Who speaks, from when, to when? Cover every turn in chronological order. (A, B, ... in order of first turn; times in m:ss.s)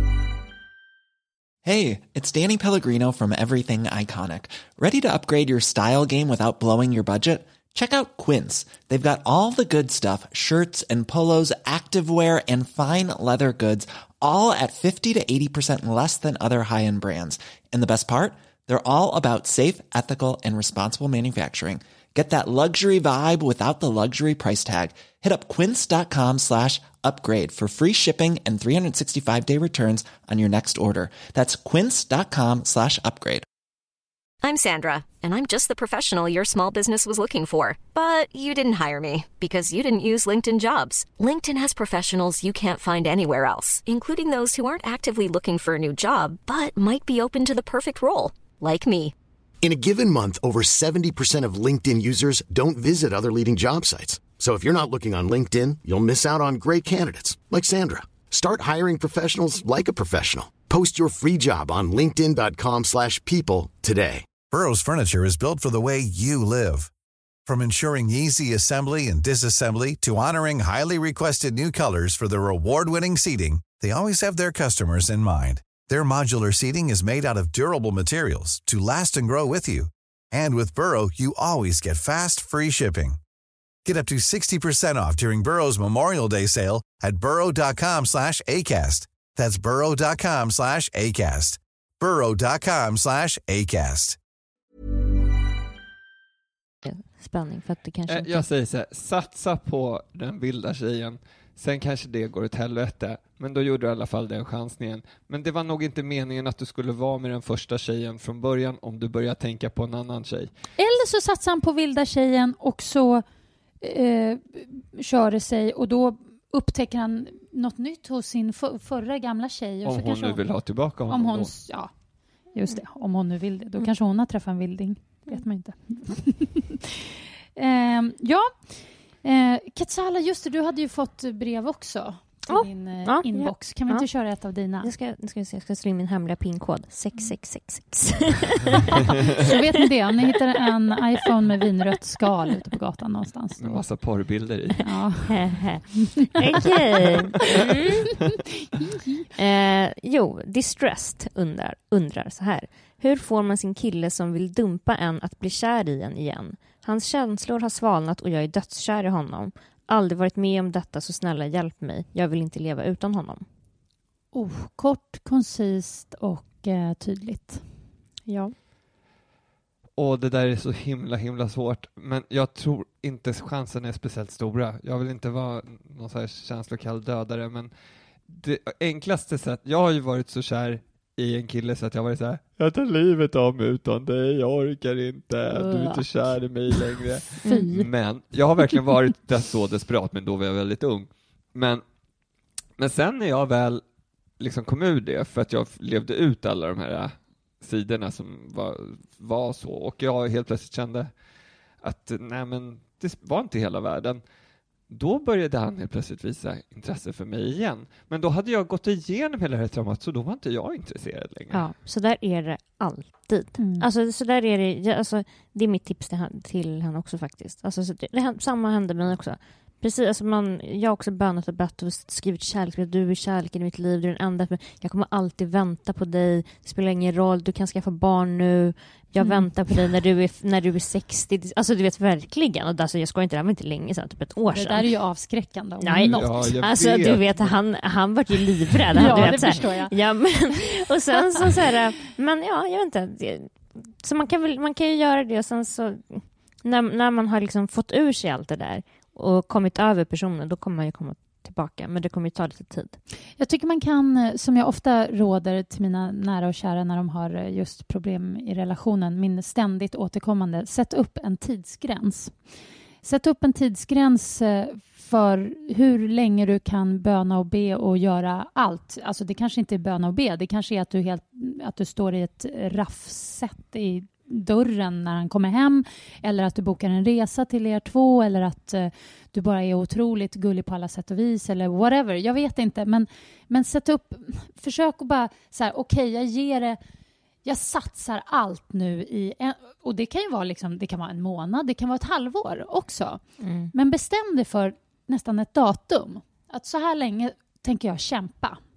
0:01.6-0:33.4 A
0:34.4-0:49.1 B
0:49.6-1:04.3 C
1:04.5-1:06.9 D
1:07.4-1:23.2 D
1:23.8-1:34.2 D
1:36.8-1:38.4 E
1:38.1-1:50.5 F
1:50.8-1:53.2 G
1:53.8-2:00.4 G
1:59.8-2:01.5 F
2:01.1-2:01.9 G
2:02.5-2:14.9 G
2:12.5-2:14.1 E
2:14.8-2:19.5 E
2:19.3-2:23.8 G
2:23.6-2:24.8 F
2:24.8-2:26.7 G
2:25.3-2:28.0 E
2:28.2-2:29.3 G
2:29.4-2:43.4 E
2:44.3-2:47.8 G
2:48.2-2:48.5 E
2:50.0-2:57.7 F
2:58.3-3:11.8 F
3:05.5-3:06.0 G
3:07.4-3:07.9 G
3:12.8-3:13.8 F
3:14.4-3:21.1 F
3:21.8-3:24.2 F
3:24.9-3:31.6 F
3:31.5-3:54.8 E
3:33.6-3:33.8 G
3:49.2-3:49.5 G
3:54.5-3:56.6 G
3:55.8-4:13.0 E
3:56.1-3:57.6 F
3:58.9-3:59.9 G
3:59.1-3:59.3 F
4:13.4-4:22.4 G
4:23.0-4:46.8 G
4:47.4-4:58.6 G
4:53.4-4:53.7 E